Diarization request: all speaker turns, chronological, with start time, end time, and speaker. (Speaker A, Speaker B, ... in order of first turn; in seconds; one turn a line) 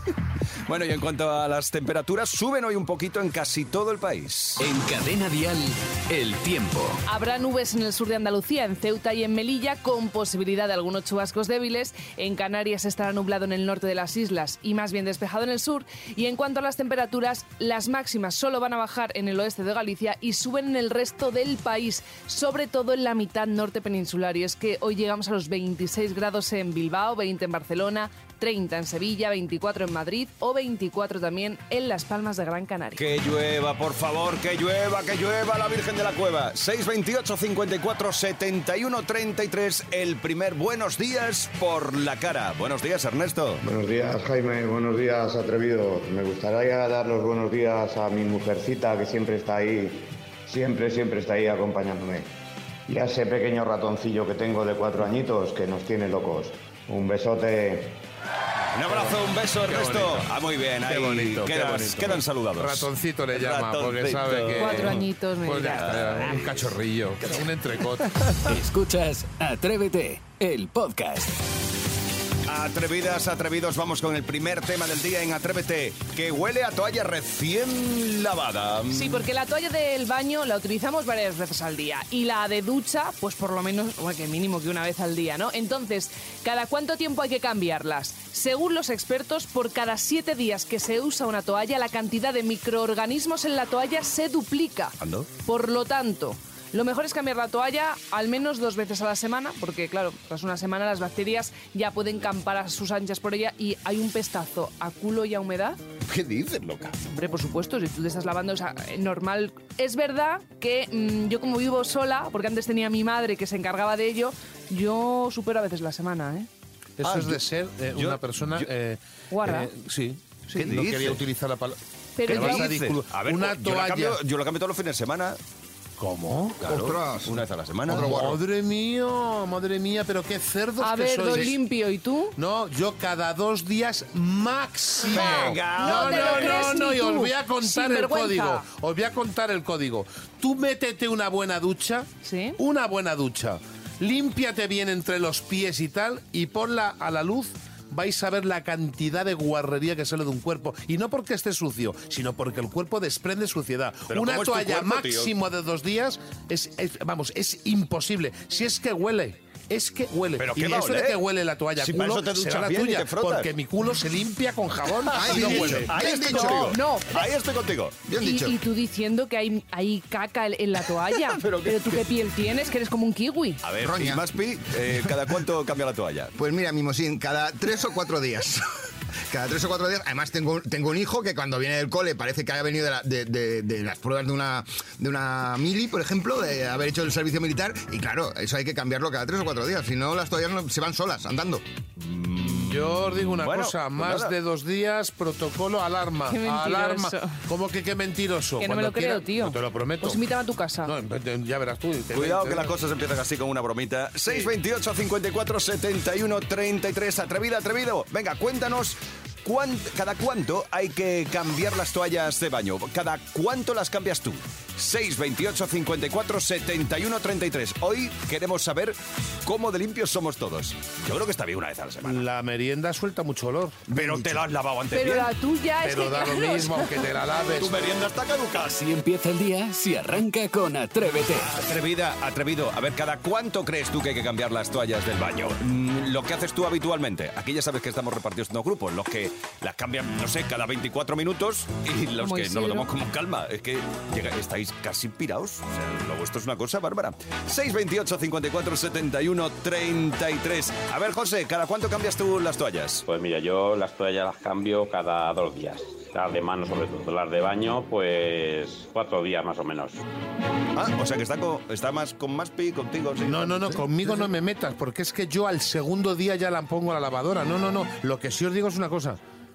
Speaker A: 0.7-4.6
Speaker B: 4.6-7.0
Speaker C: 7.0-33.0
Speaker A: 33.0-43.6
Speaker D: 43.6-52.3
Speaker D: 52.9-58.0
Speaker A: 58.7-65.0
Speaker E: 59.6-60.3
Speaker E: 60.8-68.1
Speaker C: 64.6-66.3
Speaker A: 65.8-66.7
Speaker B: 68.4-71.3
Speaker A: 72.5-79.2
Speaker C: 78.9-105.8
Speaker A: 95.0-95.3
Speaker A: 106.1-107.0
Speaker C: 107.1-116.5
Speaker E: 117.0-124.2
Speaker A: 117.0-118.7
Speaker C: 119.3-119.7
Speaker A: 120.5-121.2
Speaker C: 122.2-122.7
Speaker A: 122.3-125.4
Speaker E: 126.0-126.6
Speaker F: 126.6-128.4
Speaker A: 126.6-128.2
Speaker E: 127.9-131.6
Speaker C: 130.8-132.3
Speaker E: 132.3-165.9
Speaker A: 135.1-136.8
Speaker C: 135.1-138.6
Speaker C: 142.2-142.6
Speaker A: 154.1-155.3
Speaker A: 160.4-161.2
Speaker A: 161.8-163.5
Speaker F: 165.1-166.8
Speaker A: 165.2-168.0
Speaker C: 165.8-167.2
Speaker F: 168.0-168.6
Speaker C: 168.2-173.6
Speaker A: 171.3-172.1
Speaker A: 173.6-176.3
Speaker F: 173.8-174.2
Speaker F: 176.4-178.6
Speaker F: 179.3-191.6
Speaker A: 192.0-194.3
Speaker E: 192.4-200.2
Speaker C: 196.3-197.4
Speaker C: 198.6-200.9
Speaker E: 200.8-202.8
Speaker A: 202.1-222.2
Speaker E: 222.0-224.4
Speaker A: 223.9-225.3
Speaker C: 224.9-227.1
Speaker E: 225.8-227.8
Speaker A: 227.6-228.8
Speaker B: 228.6-231.5
Speaker A: 231.4-253.0
Speaker C: 242.2-242.9
Speaker G: 253.1-260.0
Speaker A: 260.7-263.9
Speaker E: 263.2-269.2